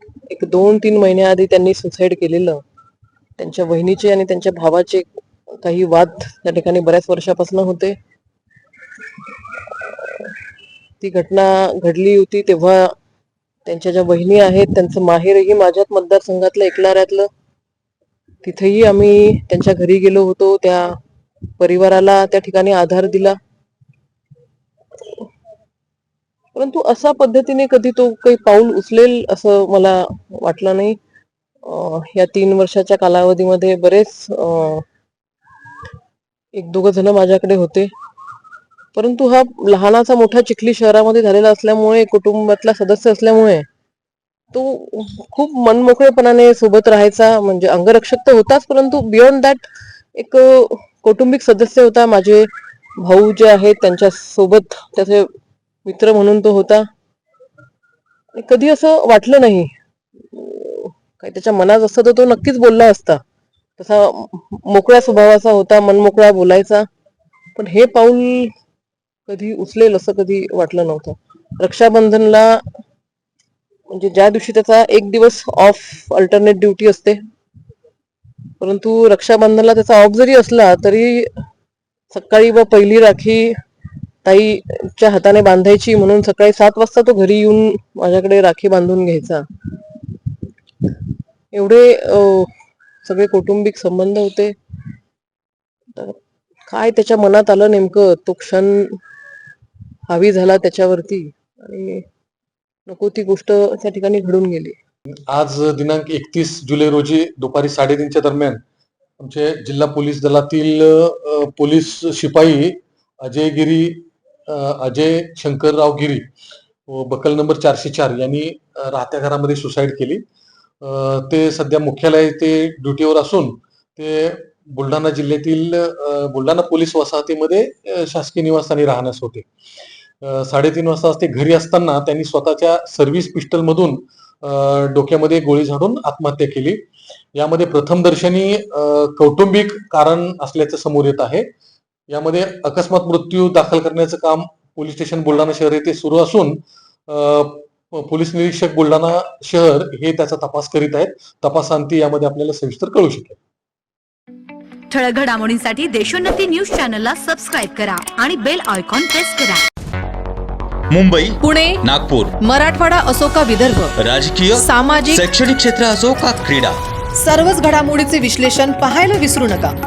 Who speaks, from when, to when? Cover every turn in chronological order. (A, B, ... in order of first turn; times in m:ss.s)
0:00.3-0:02.6 A
0:03.4-0:05.1 A
0:05.6-0:08.0 A
0:09.6-0:10.3 A
0:11.0-0:12.9 A
0:13.6-0:17.3 A
0:18.4-0:20.9 A
0:21.6-0:23.4 A
0:26.5-0:31.0 A
0:31.6-0:34.8 A
0:36.5-0:37.9 A
0:38.9-0:43.6 A
0:44.5-0:55.3 A
0:55.8-0:56.8 A
0:58.3-0:59.7 A
1:00.2-1:03.2 A
1:03.8-1:06.8 A
1:07.6-1:08.5 A
1:09.3-1:12.6 A
1:13.9-1:17.2 A
1:18.6-1:21.3 A
1:22.1-1:23.5 A
1:24.2-1:29.9 A
1:31.5-1:32.5 A
1:33.0-1:34.5 A
1:36.7-1:39.0 A
1:40.1-1:42.0 A
1:42.9-1:44.8 A
1:45.3-1:48.6 B
1:49.2-1:56.3 B
1:56.9-2:00.2 B
2:00.8-2:09.4 B
2:10.2-2:16.8 B
2:17.3-2:21.4 B
2:22.1-2:33.4 B
2:34.9-2:39.6 C
2:40.9-2:42.3 D
2:41.4-2:41.8 E
2:42.4-2:43.9 E
2:44.0-2:46.8 D
2:44.5-2:45.3 E
2:47.2-2:49.7 E